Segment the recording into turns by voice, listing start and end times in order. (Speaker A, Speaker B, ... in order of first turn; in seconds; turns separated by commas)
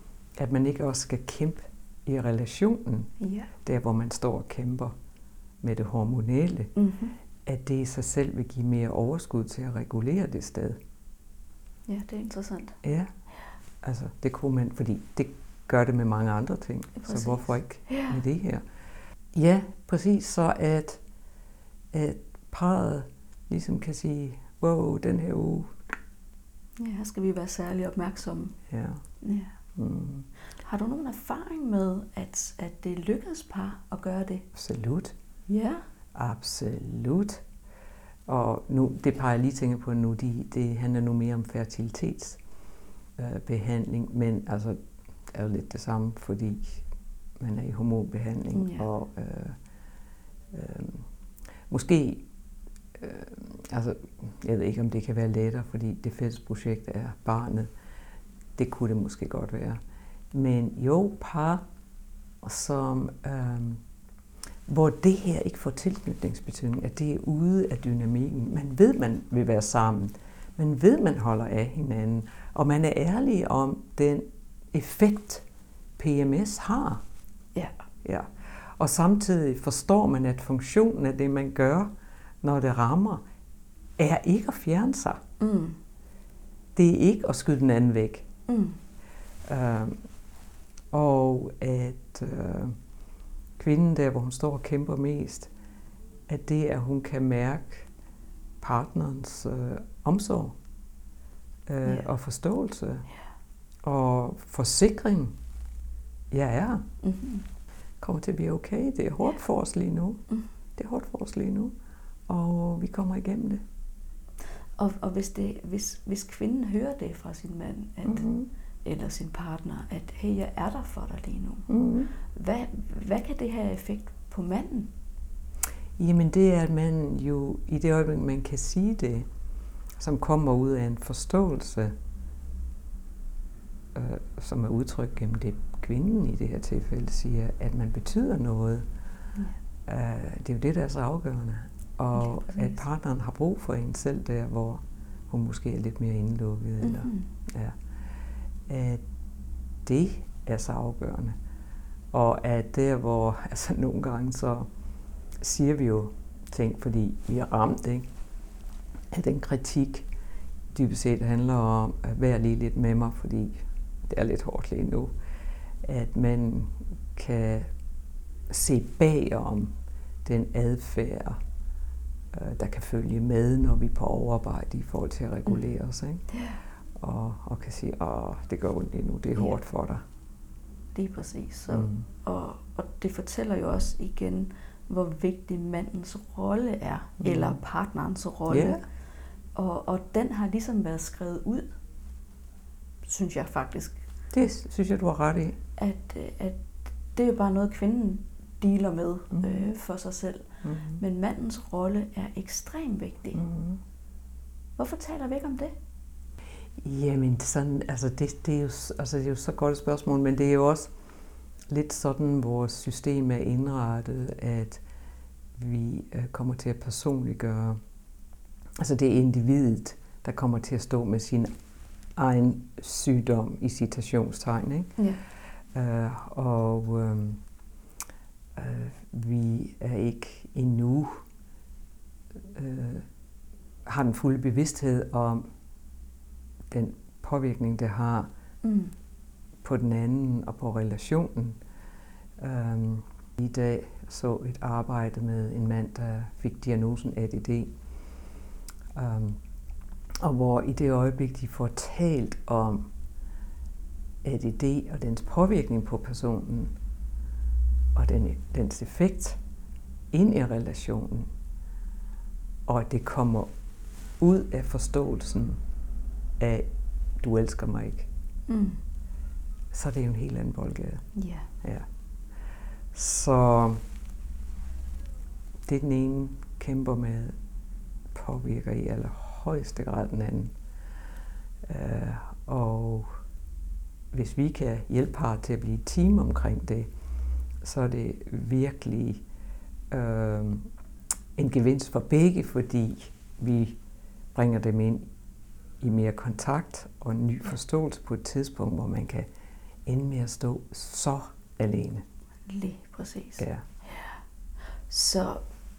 Speaker A: 0.4-4.9, Speaker B: 3.2-3.5, Speaker A: 5.6-6.7, Speaker B: 6.8-7.2, Speaker A: 7.4-10.8, Speaker B: 11.9-12.8, Speaker A: 12.8-13.1, Speaker A: 13.8-18.6, Speaker B: 16.9-18.2, Speaker A: 19.3-21.0, Speaker A: 21.9-25.8, Speaker B: 26.8-28.6, Speaker A: 28.7-29.0, Speaker B: 29.2-29.6, Speaker A: 29.8-30.3, Speaker B: 30.5-34.5, Speaker A: 34.5-35.1, Speaker B: 35.5-35.8, Speaker A: 36.1-37.4, Speaker A: 38.3-42.4, Speaker A: 43.2-46.9, Speaker A: 47.4-49.6, Speaker B: 48.5-48.9, Speaker A: 50.5-51.1, Speaker A: 51.7-52.3, Speaker A: 52.9-57.7, Speaker A: 58.6-59.8, Speaker A: 60.3-61.6, Speaker A: 62.4-63.8, Speaker A: 64.7-75.4, Speaker A: 76.0-77.0, Speaker B: 77.5-77.8, Speaker A: 78.0-81.9, Speaker A: 82.4-83.2, Speaker A: 84.0-85.2, Speaker B: 85.4-85.8, Speaker A: 86.8-88.3, Speaker B: 88.5-88.8, Speaker A: 89.4-90.0, Speaker A: 90.9-92.8, Speaker A: 93.6-95.5, Speaker A: 96.3-97.9, Speaker A: 98.6-100.6, Speaker A: 101.7-103.1, Speaker A: 103.8-105.3, Speaker A: 106.3-106.8, Speaker B: 107.0-107.5, Speaker A: 108.0-110.2, Speaker A: 110.8-111.7, Speaker A: 112.3-113.6, Speaker B: 114.8-118.3, Speaker A: 118.0-118.5, Speaker B: 118.8-124.9, Speaker A: 121.7-122.1, Speaker A: 126.0-129.3, Speaker A: 130.0-131.9, Speaker A: 133.9-138.9, Speaker A: 139.8-147.8, Speaker B: 142.1-142.8, Speaker B: 146.8-147.3, Speaker A: 148.7-149.0, Speaker A: 149.8-151.3, Speaker A: 152.1-154.7, Speaker A: 155.4-158.1, Speaker A: 159.1-160.1, Speaker A: 160.7-165.1, Speaker A: 165.8-167.7, Speaker A: 168.5-169.7, Speaker A: 170.2-171.4, Speaker A: 172.3-176.2, Speaker B: 176.3-176.6, Speaker A: 176.9-180.0, Speaker B: 180.9-188.8, Speaker A: 181.7-182.0, Speaker A: 187.2-187.6, Speaker A: 188.5-188.8, Speaker B: 189.5-191.8, Speaker B: 193.0-194.0, Speaker A: 194.3-195.6, Speaker B: 195.8-203.4, Speaker A: 199.3-199.7, Speaker A: 200.6-201.0, Speaker A: 203.3-203.8, Speaker B: 204.8-205.7, Speaker A: 206.8-210.9, Speaker A: 211.7-214.8, Speaker A: 215.6-217.8, Speaker A: 218.8-221.5, Speaker A: 222.2-225.0, Speaker A: 225.7-227.4, Speaker A: 228.5-231.2, Speaker A: 232.5-233.1, Speaker A: 233.8-235.5, Speaker A: 236.7-238.3, Speaker B: 238.6-238.9, Speaker A: 239.6-241.6, Speaker A: 242.4-247.7, Speaker A: 248.9-249.4, Speaker A: 250.2-252.9, Speaker A: 254.2-256.7, Speaker A: 257.9-259.4, Speaker A: 260.1-261.3, Speaker A: 262.6-263.5, Speaker A: 264.2-265.6, Speaker A: 266.4-268.1, Speaker B: 268.5-268.8, Speaker A: 269.7-271.1, Speaker B: 271.1-271.5, Speaker A: 271.6-271.9, Speaker A: 272.9-273.8, Speaker A: 275.6-277.4, Speaker A: 278.1-280.5, Speaker A: 281.6-283.2, Speaker A: 284.1-286.9, Speaker A: 287.6-289.2, Speaker A: 289.9-290.7, Speaker A: 291.4-293.8, Speaker A: 294.3-295.1, Speaker A: 295.8-299.3, Speaker A: 299.9-302.0, Speaker B: 302.5-305.4, Speaker A: 303.4-303.6